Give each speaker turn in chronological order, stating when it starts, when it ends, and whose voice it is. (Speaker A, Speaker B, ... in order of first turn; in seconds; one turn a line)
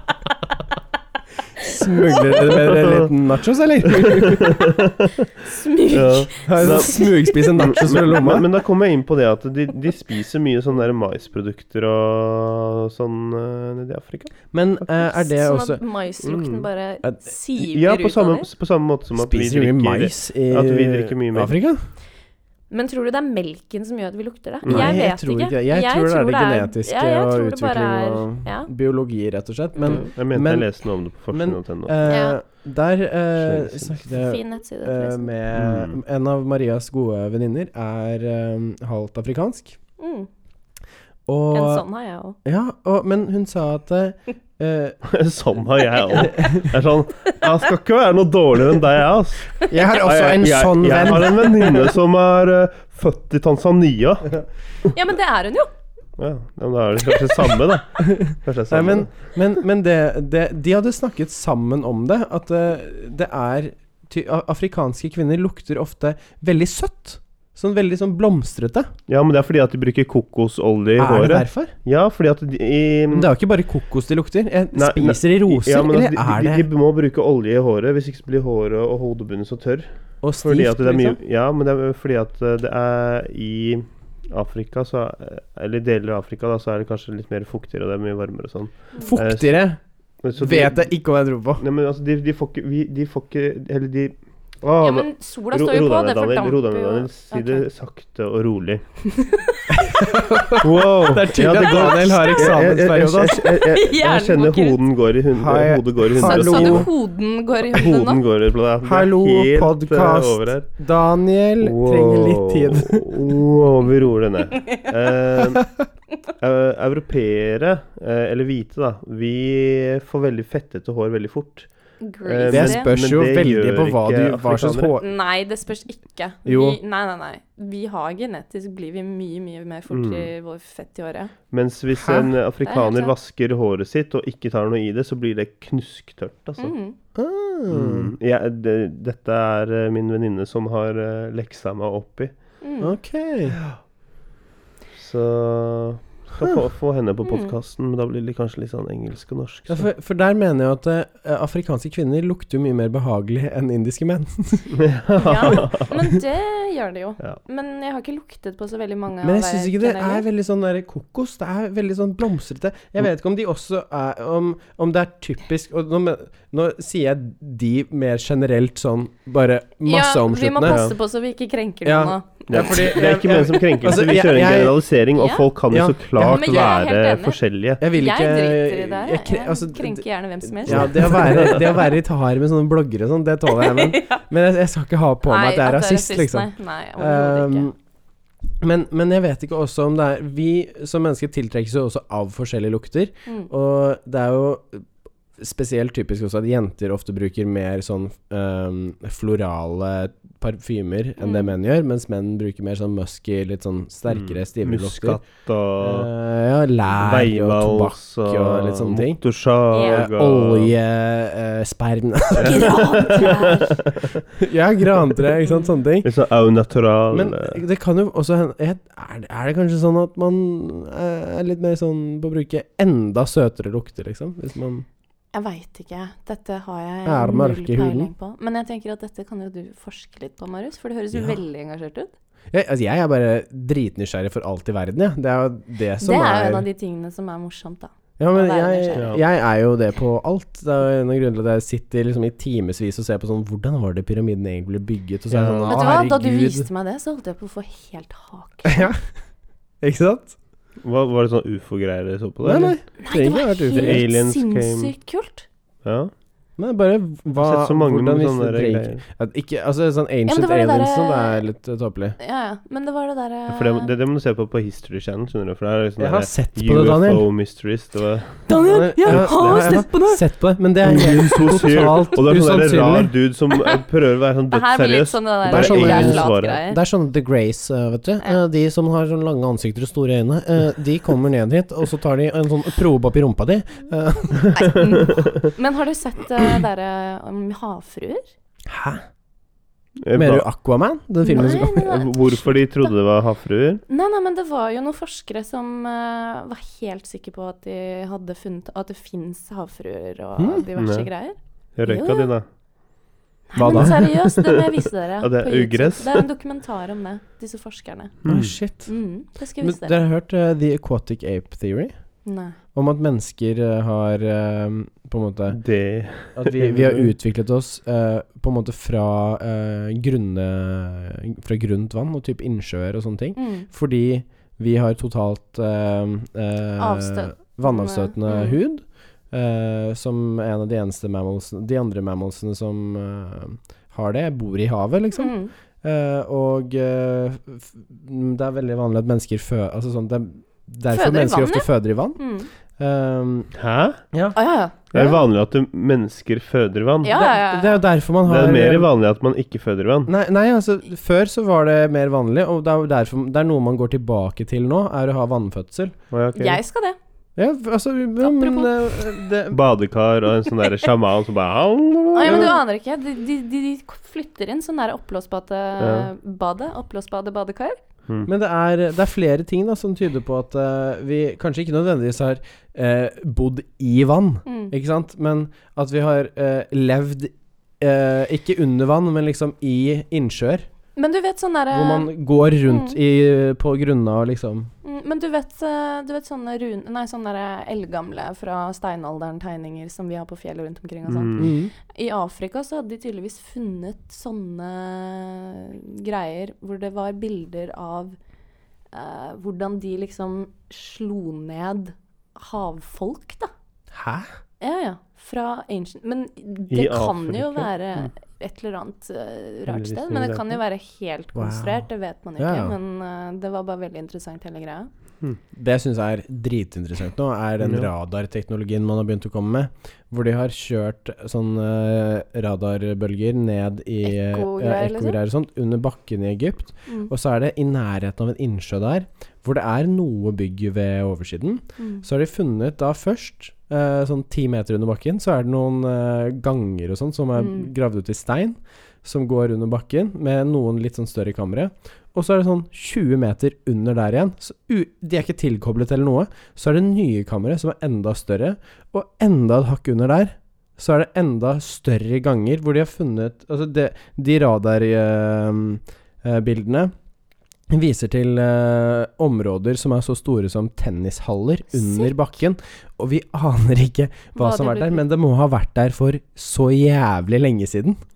Speaker A: 1.6-4.7
Speaker B: 2.4-3.1
Speaker B: 3.9-5.3
Speaker C: 5.4-7.5
Speaker B: 5.9-14.5
Speaker A: 6.4-8.5
Speaker A: 14.5-15.8
Speaker C: 15.0-18.5
Speaker B: 16.2-16.7
Speaker B: 17.6-21.6
Speaker A: 19.2-21.8
Speaker C: 22.7-28.7
Speaker B: 24.6-25.0
Speaker A: 24.7-30.8
Speaker B: 29.8-32.2
Speaker C: 29.8-30.1
Speaker A: 31.3-39.8
Speaker C: 32.1-32.4
Speaker B: 33.4-34.0
Speaker C: 34.1-35.3
Speaker B: 35.5-36.0
Speaker C: 40.0-40.3
Speaker A: 41.3-41.8
Speaker C: 41.5-42.4
Speaker A: 42.5-45.0
Speaker B: 45.0-54.4
Speaker A: 46.3-46.6
Speaker A: 49.7-51.9
Speaker C: 54.9-55.7
Speaker B: 56.2-59.3
Speaker A: 58.1-68.9
Speaker B: 69.1-73.3
Speaker A: 71.0-71.7
Speaker A: 73.1-76.7
Speaker B: 74.8-79.9
Speaker A: 80.2-81.2
Speaker B: 80.4-89.7
Speaker A: 89.1-89.8
Speaker B: 90.2-91.0
Speaker A: 90.4-91.6
Speaker B: 91.6-98.8
Speaker C: 94.8-97.7
Speaker C: 99.1-100.6
Speaker A: 99.7-103.5
Speaker B: 100.6-106.9
Speaker C: 101.5-102.6
Speaker C: 103.4-104.8
Speaker A: 105.3-106.9
Speaker C: 106.2-108.2
Speaker B: 107.7-110.7
Speaker A: 108.8-113.1
Speaker B: 111.6-115.8
Speaker B: 116.4-121.7
Speaker C: 122.0-122.9
Speaker B: 122.2-125.0
Speaker A: 122.5-125.1
Speaker C: 125.0-131.3
Speaker A: 126.5-126.8
Speaker B: 129.9-130.3
Speaker B: 131.5-136.7
Speaker A: 132.0-132.3
Speaker C: 132.6-133.1
Speaker C: 136.6-137.0
Speaker A: 137.2-138.1
Speaker B: 137.7-142.3
Speaker C: 142.6-142.9
Speaker A: 142.8-143.6
Speaker B: 144.9-149.9
Speaker C: 147.2-147.6
Speaker A: 149.7-154.7
Speaker B: 154.7-155.9
Speaker C: 155.2-160.2
Speaker A: 159.2-170.8
Speaker C: 169.8-172.7
Speaker B: 170.6-170.9
Speaker A: 171.8-174.9
Speaker B: 172.5-177.8
Speaker C: 175.2-175.5
Speaker A: 175.7-176.8
Speaker C: 176.2-177.4
Speaker A: 177.8-187.8
Speaker C: 177.9-181.6
Speaker B: 180.7-181.7
Speaker C: 183.5-184.2
Speaker C: 185.3-187.7
Speaker A: 188.6-194.9
Speaker A: 195.4-205.2
Speaker C: 201.2-201.5
Speaker B: 204.1-206.1
Speaker A: 205.8-209.2
Speaker B: 207.0-210.7
Speaker C: 209.7-210.1
Speaker A: 209.8-212.8
Speaker C: 212.3-213.8
Speaker B: 212.4-214.2
Speaker A: 214.4-216.1
Speaker B: 216.0-217.6
Speaker A: 217.1-224.9
Speaker C: 225.3-232.1
Speaker A: 227.1-228.1
Speaker A: 232.5-236.7
Speaker C: 236.0-239.2
Speaker A: 238.2-246.7
Speaker B: 239.0-239.2
Speaker B: 245.3-245.9
Speaker C: 245.7-248.9
Speaker A: 248.7-249.0
Speaker A: 249.8-250.3
Speaker B: 250.8-252.8
Speaker A: 252.4-254.1
Speaker C: 253.0-255.5
Speaker B: 253.7-254.9
Speaker B: 255.8-256.1
Speaker A: 256.6-262.2
Speaker B: 257.4-259.0
Speaker C: 260.3-261.4
Speaker C: 262.2-263.9
Speaker B: 263.5-268.6
Speaker A: 266.0-267.3
Speaker C: 268.5-270.2
Speaker A: 268.6-273.1
Speaker B: 269.1-269.4
Speaker B: 270.8-276.6
Speaker C: 274.5-276.8
Speaker A: 275.5-285.0
Speaker B: 284.5-285.3
Speaker C: 284.6-288.3
Speaker A: 288.7-289.0
Speaker B: 290.0-290.5
Speaker A: 290.1-291.8
Speaker C: 291.2-292.9
Speaker B: 291.4-293.8
Speaker C: 293.9-302.3
Speaker A: 300.4-300.7
Speaker B: 300.8-301.1
Speaker B: 301.8-302.4
Speaker C: 303.5-308.2
Speaker A: 303.6-304.0
Speaker B: 303.6-304.6
Speaker B: 305.2-306.3
Speaker B: 308.2-308.6
Speaker A: 308.3-308.9
Speaker C: 308.9-310.0
Speaker A: 309.6-311.9
Speaker C: 312.2-312.6
Speaker A: 312.7-315.6
Speaker B: 315.5-317.1
Speaker A: 316.3-342.2
Speaker C: 323.4-323.7
Speaker C: 326.8-328.6
Speaker C: 335.1-335.5
Speaker C: 340.9-342.5
Speaker A: 342.8-343.5
Speaker B: 343.6-344.0
Speaker A: 344.1-344.4
Speaker C: 344.4-345.2
Speaker B: 344.9-347.3
Speaker C: 347.0-347.8
Speaker A: 347.1-348.9
Speaker B: 348.3-350.1
Speaker A: 350.1-355.9
Speaker B: 356.1-356.6
Speaker C: 356.4-357.0
Speaker A: 357.4-359.6
Speaker C: 358.2-359.0
Speaker B: 359.5-362.6
Speaker C: 362.1-367.8
Speaker A: 362.2-362.6
Speaker B: 365.8-366.1
Speaker A: 368.2-380.7
Speaker C: 374.5-374.7
Speaker C: 381.0-382.1
Speaker A: 381.7-384.7
Speaker C: 382.6-383.0
Speaker C: 384.8-398.2
Speaker B: 391.1-391.5
Speaker A: 391.4-391.7
Speaker C: 398.9-403.5
Speaker A: 403.9-404.3
Speaker C: 404.6-414.9
Speaker B: 406.7-407.7
Speaker B: 409.7-410.6
Speaker A: 411.4-411.9
Speaker A: 412.4-412.8
Speaker A: 415.5-456.9
Speaker B: 417.6-417.9
Speaker C: 424.0-425.2
Speaker C: 431.8-432.1
Speaker C: 437.4-437.7
Speaker A: 457.7-468.0
Speaker C: 461.7-462.1
Speaker C: 464.4-465.0